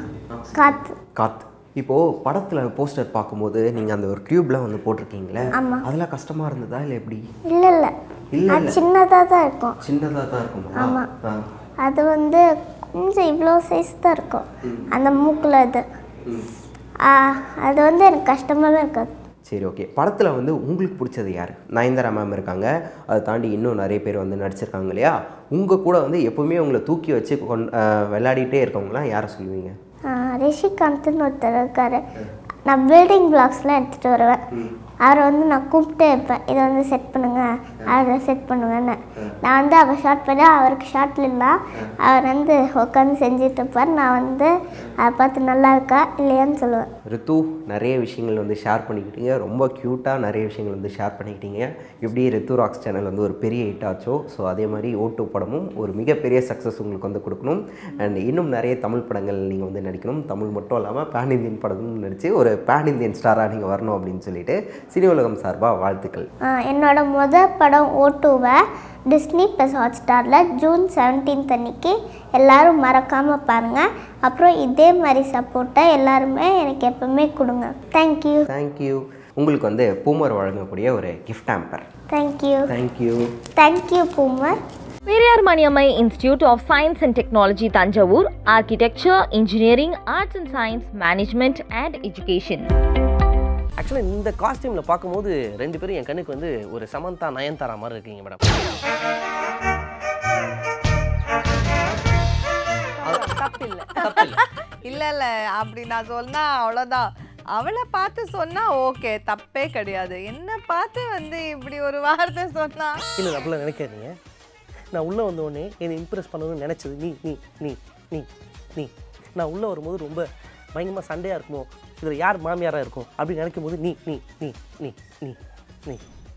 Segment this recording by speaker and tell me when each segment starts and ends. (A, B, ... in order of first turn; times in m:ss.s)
0:00.3-0:07.2 A
0:00.6-0:00.9 B
0:05.6-0:05.9 B
0:07.5-0:07.9 B
0:08.3-0:08.8 A
0:08.5-0:09.8 B
0:09.8-0:11.4 A
0:10.8-0:11.1 B
0:11.8-0:12.4 B
0:12.9-0:15.8 B
0:17.0-0:19.1 B
0:19.5-0:29.8 A
0:30.1-0:32.0 B
0:32.7-0:34.4 B
0:35.0-0:46.9 B
0:47.1-1:06.3 A
1:06.5-1:08.6 B
1:09.1-1:18.5 B
1:18.5-1:21.8 A
1:22.1-1:22.7 B
1:22.7-1:23.2 A
1:23.6-1:24.6 B
1:25.1-1:32.7 C
1:33.8-1:38.5 D
1:43.0-1:53.0 E
1:44.0-1:44.4 D
1:53.2-1:54.2 D
1:54.9-2:06.0 D